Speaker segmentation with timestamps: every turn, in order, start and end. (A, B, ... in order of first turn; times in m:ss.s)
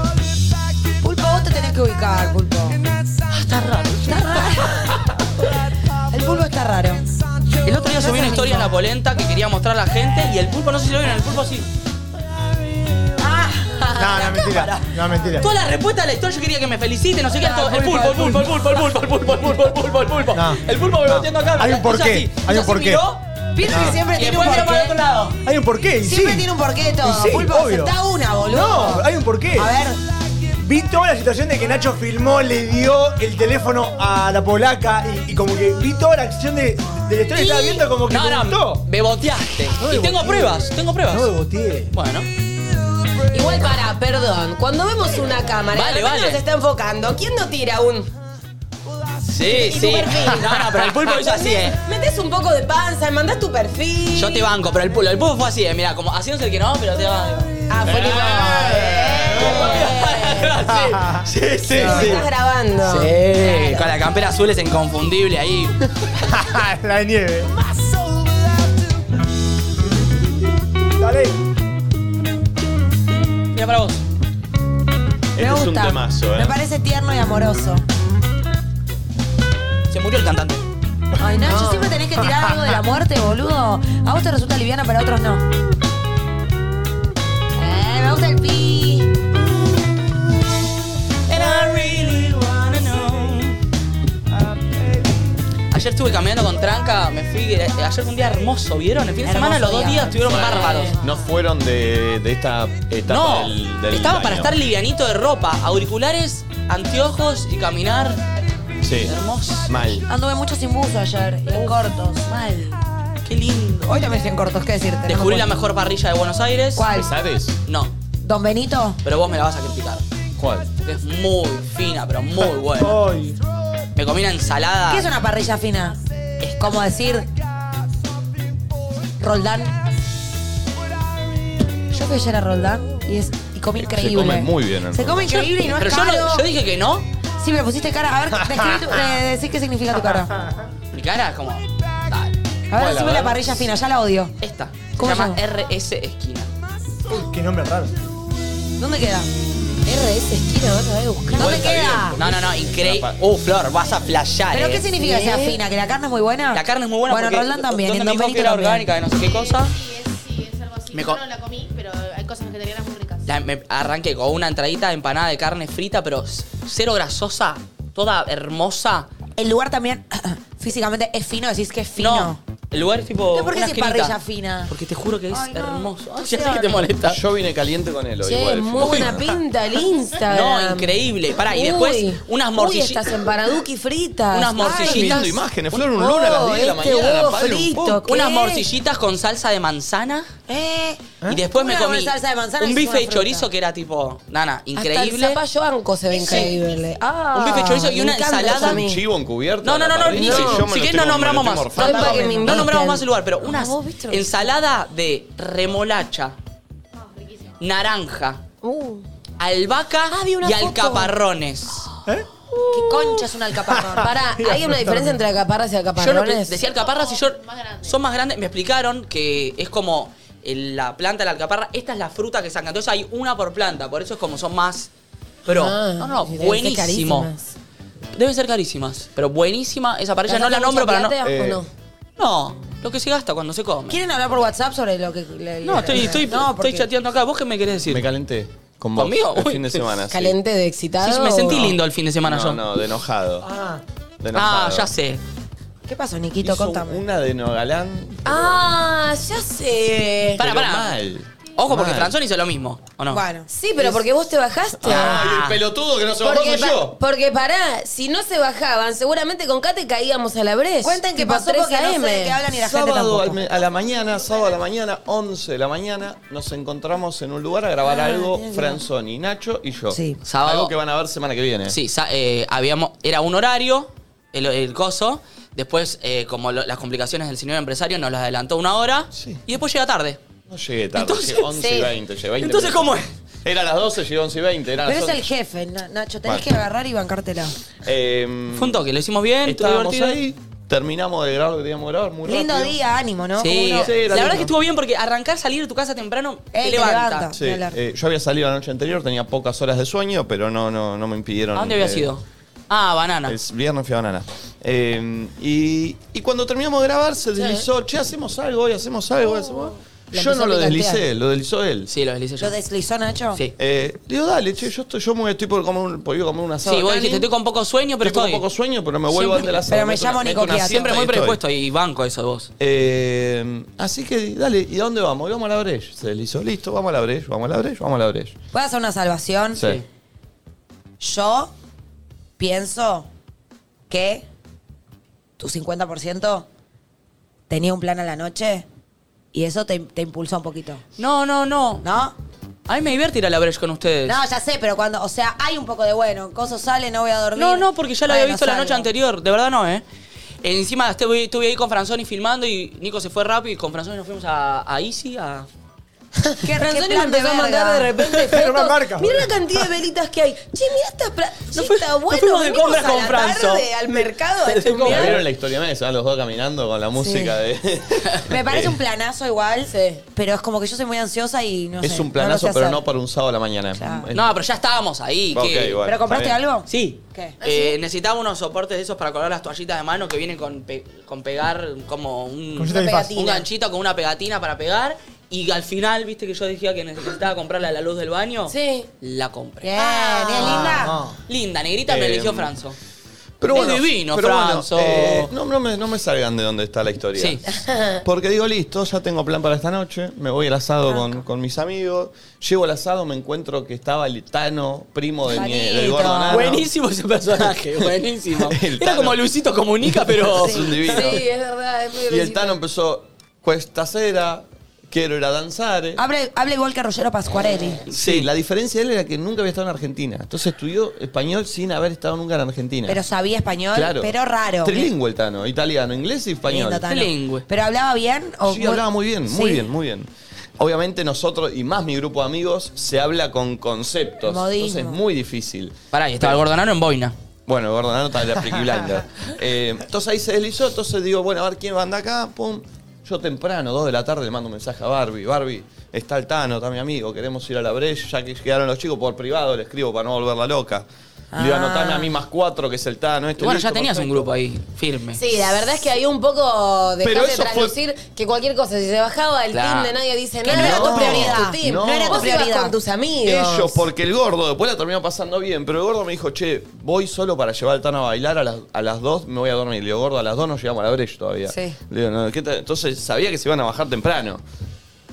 0:01.0-0:02.8 A
0:03.3-0:04.7 B
0:04.0-0:05.1 A
0:06.1-0:07.1 A
0:07.6-0:11.7 B
0:07.9-0:08.7 A
0:13.2-0:14.8 A
0:14.0-0:15.5 C
0:15.4-0:25.4 B
0:17.4-0:18.3 A
0:17.5-0:18.4 C
0:20.3-0:23.0 C
0:23.5-0:25.0 A
0:23.6-0:24.0 C
0:25.4-0:26.5 C
0:26.0-0:30.0 A
0:27.0-0:27.9 C
0:28.4-0:29.7 C
0:30.6-0:38.8 C
0:37.3-0:41.3 B
0:39.8-0:41.9 C
0:41.9-0:42.3 B
0:43.3-0:48.1 D
0:45.7-0:46.4 B
0:49.2-0:51.8 B
0:49.6-0:50.3 A
0:49.6-0:50.4 D
0:51.1-0:54.5 D
0:54.1-0:57.5 B
0:57.7-0:58.8 A
0:57.8-1:00.6 D
0:57.8-0:59.7 E
0:59.3-1:02.3 B
1:00.7-1:02.1 C
1:01.7-1:03.9 D
1:02.8-1:05.8 B
1:06.2-1:07.5 C
1:11.0-1:11.4 C
1:13.5-1:14.0 B
1:15.3-1:16.5 E
1:15.4-1:17.8 A
1:19.9-1:20.6 B
1:21.2-1:25.4 A
1:21.4-1:22.7 C
1:27.6-1:29.2 A
1:31.3-1:33.6 B
1:35.7-1:40.9 B
1:39.2-1:41.0 A
1:40.2-1:44.5 E
1:40.5-1:40.9 D
1:43.1-1:48.2 B
1:48.8-1:49.1 E
1:49.0-1:49.7 B
1:49.7-1:50.0 E
1:50.0-1:52.3 A
1:51.5-1:53.9 B
1:53.8-1:55.5 A
1:55.1-1:56.9 B
1:56.7-1:57.1 A
1:56.9-1:57.6 E
1:57.6-1:57.9 B
1:58.2-1:59.0 A
1:59.0-2:00.0 B
2:00.4-2:00.7 E
2:00.8-2:03.0 B
2:02.7-2:03.4 C
2:03.9-2:05.1 B
2:04.9-2:07.3 A
2:09.2-2:09.8 A
2:11.9-2:16.5 A
2:13.7-2:15.3 E
2:15.3-2:17.1 B
2:17.4-2:20.3 A
2:18.4-2:18.8 C
2:20.9-2:22.4 B
2:22.7-2:24.3 A
2:22.7-2:23.5 E
2:24.4-2:26.5 B
2:25.0-2:25.4 A
2:27.1-2:27.9 C
2:28.8-2:29.3 A
2:29.8-2:32.2 A
2:31.3-2:33.2 E
2:31.4-2:34.9 B
2:34.5-2:38.9 A
2:35.0-2:35.6 D
2:36.5-2:39.8 B
2:39.1-2:43.3 F
2:40.9-2:41.2 B
2:43.2-2:49.1 B
2:49.4-2:52.4 A
2:52.0-2:57.2 B
2:53.3-2:54.7 A
2:55.3-2:56.9 A
2:57.1-2:59.2 E
2:58.2-3:04.9 D
3:00.3-3:03.1 B
3:04.3-3:05.3 B
3:04.5-3:05.2 A
3:04.8-3:08.0 E
3:05.7-3:08.4 D
3:06.1-3:08.7 A
3:08.0-3:10.3 B
3:10.5-3:13.5 A
3:11.3-3:15.4 B
3:14.8-3:19.0 D
3:16.1-3:18.8 A
3:16.2-3:16.5 B
3:17.3-3:18.8 B
3:18.4-3:22.5 E
3:19.6-3:26.4 B
3:20.2-3:20.6 D
3:21.8-3:24.1 D
3:21.8-3:24.2 A
3:27.0-3:27.5 F
3:27.6-3:28.4 B
3:28.6-3:29.0 D
3:29.4-3:31.9 B
3:30.1-3:31.1 D
3:30.4-3:31.1 A
3:32.7-3:34.1 A
3:33.6-3:35.2 C
3:33.9-3:36.6 D
3:36.0-3:44.9 B
3:36.6-3:38.0 F
3:45.4-3:47.3 B
3:45.4-3:47.5 D
3:48.1-3:51.2 B
3:50.3-3:51.7 D
3:51.2-3:51.6 E
3:52.2-3:54.0 B
3:53.9-3:56.9 A
3:55.6-3:58.0 B
3:57.9-4:00.4 E
3:59.0-3:59.9 B
4:00.1-4:01.8 D
4:01.0-4:02.6 B
4:02.2-4:03.5 E
4:03.4-4:03.8 C
4:04.2-4:04.9 E
4:04.3-4:05.2 B
4:05.8-4:07.0 A
4:06.4-4:08.6 E
4:08.2-4:10.4 D
4:10.4-4:10.9 B
4:10.4-4:12.1 E
4:11.6-4:13.2 B
4:13.1-4:13.5 A
4:13.5-4:15.2 D
4:14.8-4:17.0 E
4:14.8-4:15.6 B
4:16.2-4:22.4 D
4:20.8-4:23.4 A
4:22.5-4:31.8 E
4:27.8-4:28.8 A
4:29.9-4:30.2 A
4:30.2-4:30.7 B
4:31.7-4:40.2 B
4:39.1-4:39.4 E
4:40.5-4:42.9 E
4:40.9-4:41.7 B
4:42.4-4:43.1 B
4:43.4-4:45.2 E
4:44.8-4:47.5 A
4:47.8-4:48.8 E
4:48.5-4:50.2 B
4:49.4-4:52.8 E
4:52.2-4:54.4 A
4:53.4-4:57.3 B
4:53.8-4:54.5 E
4:56.5-4:57.8 A
4:57.3-5:02.1 E
5:01.5-5:03.4 B
5:03.3-5:11.9 E
5:07.4-5:07.6 D
5:10.1-5:11.0 D
5:11.9-5:12.6 B
5:12.4-5:13.4 A
5:13.6-5:17.3 E
5:16.6-5:18.4 B
5:18.0-5:21.4 E
5:19.1-5:19.5 B
5:19.6-5:20.9 A
5:20.6-5:22.5 B
5:22.6-5:28.4 E
5:28.5-5:29.6 A
5:29.6-5:29.8 E
5:29.6-5:29.8 B
5:31.0-5:31.5 A
5:32.4-5:33.1 A
5:33.9-5:34.2 A
5:35.4-5:36.5 A
5:37.5-5:38.6 A
5:39.3-5:40.8 A
5:41.0-5:41.8 B
5:41.8-5:42.1 A
5:42.7-5:44.2 B
5:44.0-5:48.9 A
5:47.4-5:49.8 B
5:50.4-5:55.5 B
5:56.2-6:05.2 D
5:56.4-5:58.0 A
5:58.2-5:59.4 C
6:01.5-6:03.7 B
6:02.7-6:03.0 A
6:04.4-6:05.2 B
6:04.8-6:08.8 E
6:07.0-6:07.4 A
6:08.2-6:12.8 A
6:09.6-6:10.0 D
6:11.8-6:14.3 E
6:13.7-6:14.1 A
6:14.1-6:15.8 B
6:15.3-6:16.4 E
6:15.8-6:17.4 A
6:16.7-6:32.8 B
6:17.4-6:17.7 D
6:22.6-6:23.2 C
6:22.7-6:23.4 D
6:28.5-6:28.9 D
6:29.6-6:31.0 A
6:29.8-6:30.7 D
6:30.4-6:31.2 C
6:31.9-6:32.5 E
6:33.4-6:46.6 E
6:33.5-6:35.3 B
6:37.2-6:37.4 B
6:37.6-6:38.0 D
6:45.2-6:46.6 A
6:46.2-6:51.1 B
6:48.4-6:49.2 E
6:50.0-6:51.2 E
6:50.3-6:50.7 A
6:50.8-6:52.6 D
6:52.1-6:56.0 E
6:56.0-6:57.8 A
6:57.9-6:58.3 B
6:57.9-7:03.0 E
7:02.9-7:04.9 A
7:03.7-7:06.8 E
7:06.4-7:09.6 A
7:06.9-7:07.4 B
7:08.4-7:16.4 E
7:14.2-7:15.0 A
7:15.9-7:17.1 B
7:17.5-7:34.3 E
7:31.3-7:32.1 A
7:33.4-7:35.2 B
7:35.1-7:43.8 D
7:37.0-7:37.7 E
7:39.5-7:40.0 B
7:40.4-7:42.8 A
7:40.4-7:42.3 E
7:43.2-7:54.4 E
7:51.5-7:51.8 A